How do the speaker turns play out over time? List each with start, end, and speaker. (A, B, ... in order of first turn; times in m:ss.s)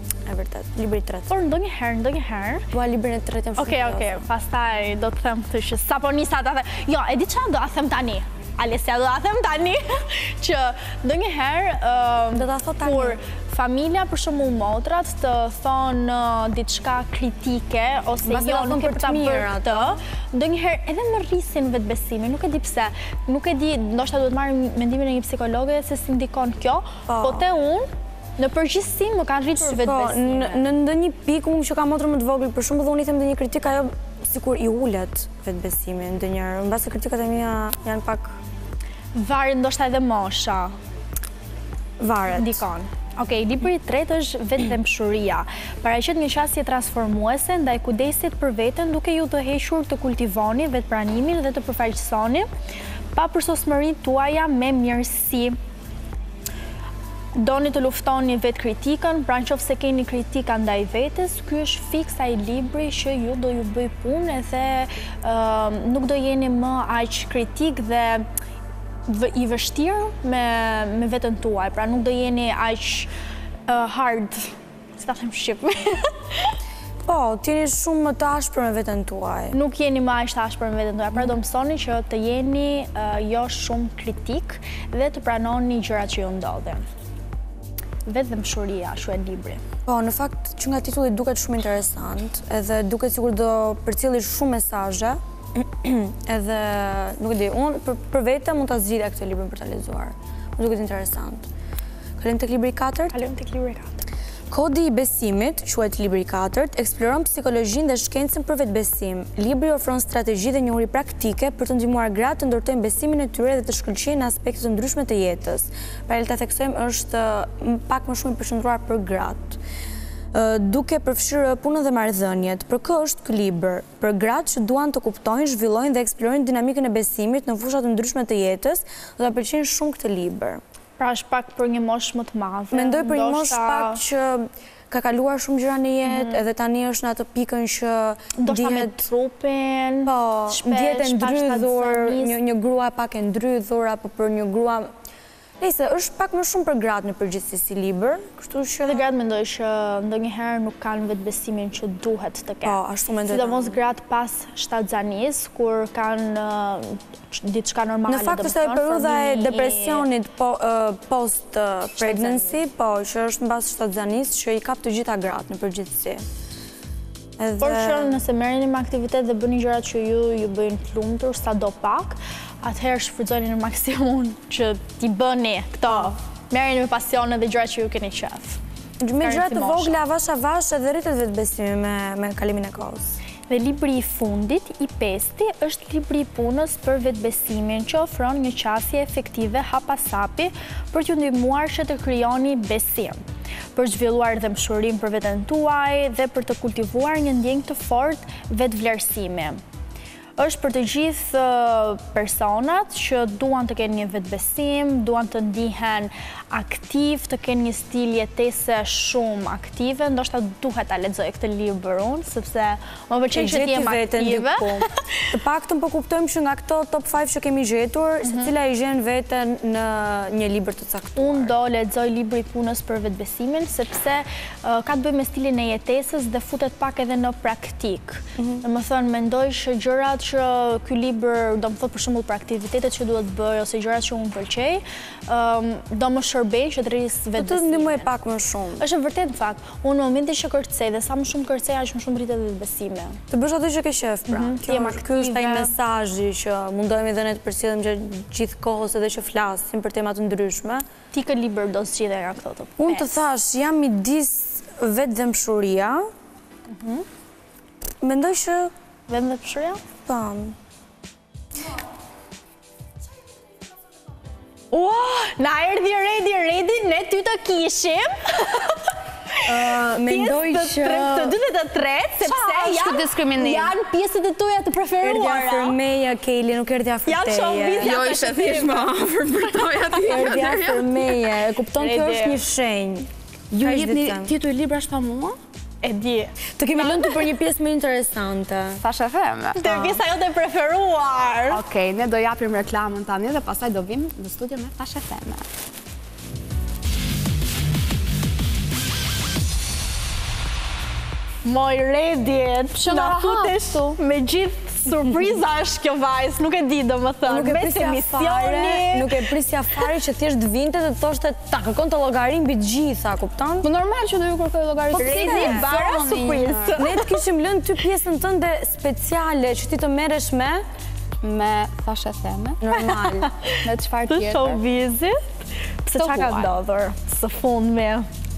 0:00.3-0:01.3 A
0:01.3-0:02.7 B
0:02.7-0:04.2 A
0:03.6-0:30.7 B
0:12.3-0:13.2 A
0:18.2-0:20.0 A
0:27.1-0:27.5 A
0:29.6-0:38.3 A
0:39.2-0:40.8 B
0:42.0-0:42.6 A
0:42.3-0:52.5 B
0:53.2-0:55.6 B
0:57.4-1:08.3 B
1:09.1-1:13.1 B
1:13.7-1:16.5 B
1:17.0-1:19.6 A
1:19.5-1:26.9 B
1:28.1-1:29.6 B
1:29.9-1:41.5 A
1:42.2-1:43.2 A
1:43.1-1:44.1 B
1:44.5-1:59.6 A
2:00.3-2:10.6 A
2:11.0-2:14.0 B
2:12.7-2:19.0 A
2:16.1-2:16.4 B
2:18.4-2:22.4 B
2:20.0-2:24.9 A
2:25.6-2:29.0 A
2:28.8-2:40.1 B
2:32.6-2:33.8 A
2:38.1-2:46.2 A
2:42.0-2:42.6 B
2:47.4-2:48.2 A
2:47.6-2:58.6 B
2:55.9-2:56.1 A
2:59.0-3:03.2 A
2:59.2-3:00.0 B
3:03.5-3:13.2 B
3:13.8-3:19.6 B
3:20.4-3:35.2 B
3:33.3-3:41.6 A
3:38.2-3:38.5 B
3:41.2-3:58.1 B
3:48.4-3:48.6 A
3:57.4-3:58.8 A
3:58.8-4:03.2 B
4:03.3-4:10.9 A
4:04.3-4:05.7 B
4:11.1-4:13.1 B
4:12.8-4:16.1 A
4:16.7-4:17.1 B
4:18.0-4:18.7 A
4:19.1-4:19.8 B
4:20.0-4:20.6 A
4:24.7-4:35.8 B
4:29.4-4:31.4 A
4:32.2-4:33.7 C
4:35.0-4:38.0 A
4:37.1-4:39.0 B
4:37.8-4:41.2 C
4:40.0-4:44.3 A
4:41.8-4:42.4 B
4:43.5-4:45.4 C
4:45.8-4:47.2 B
4:46.6-4:48.8 A
4:48.8-4:50.0 C
4:49.6-4:51.6 B
4:51.5-4:55.5 C
5:01.4-5:09.3 B
5:02.8-5:04.0 C
5:07.3-5:13.7 A
5:13.6-5:16.8 C
5:14.9-5:17.2 B
5:15.0-5:15.7 A
5:16.8-5:20.6 A
5:21.2-5:22.6 C
5:22.6-5:23.3 A
5:22.8-5:28.1 B
5:23.5-5:24.6 C
5:26.0-5:26.5 C